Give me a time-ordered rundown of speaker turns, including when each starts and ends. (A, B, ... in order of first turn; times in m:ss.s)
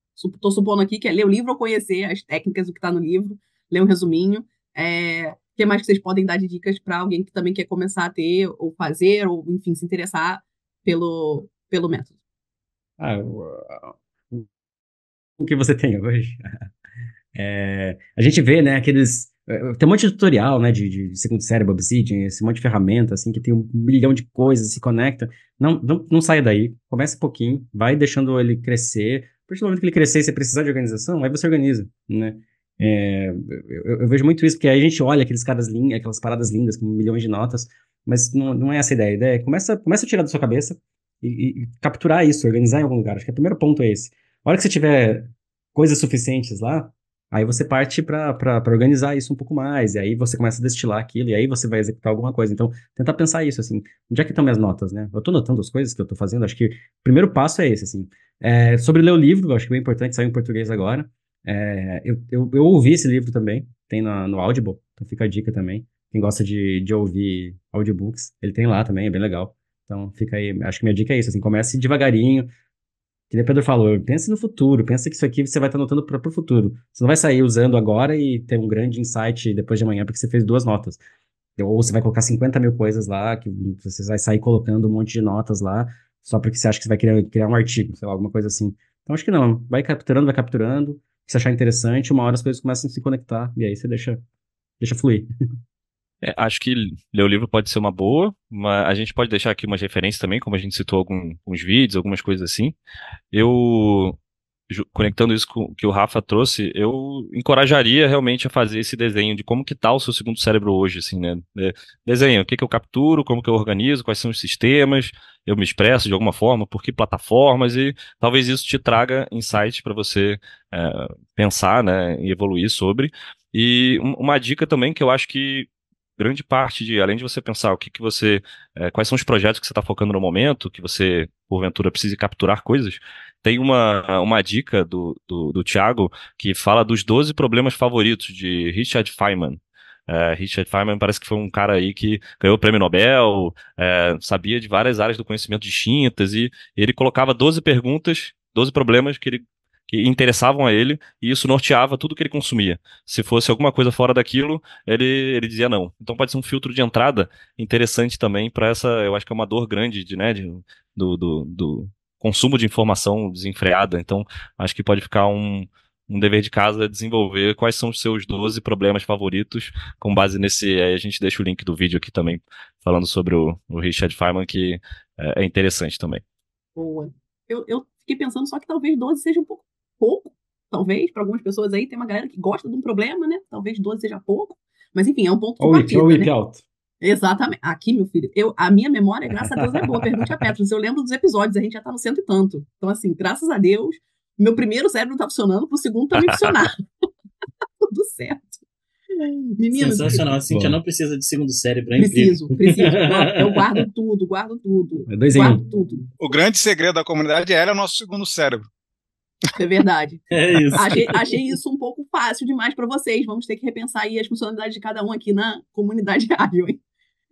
0:00.2-0:12.1 A
0:13.0-0:14.5 B
0:15.4-0:16.7 B
0:17.3-1:12.5 B
1:13.3-1:21.0 B
1:21.6-1:34.2 B
1:34.8-1:35.3 B
1:36.2-1:42.8 C
1:43.3-1:44.2 C
1:44.7-2:56.2 C
2:56.8-3:06.3 A
3:05.6-3:06.6 B
3:07.0-3:16.8 A
3:09.6-3:10.4 B
3:17.8-3:18.6 A
3:19.1-3:20.3 A
3:19.7-3:23.8 D
3:20.5-3:20.8 B
3:22.0-3:26.0 A
3:25.1-3:25.7 B
3:26.2-3:28.7 E
3:29.6-3:30.2 A
3:30.3-3:31.2 D
3:30.7-3:36.8 A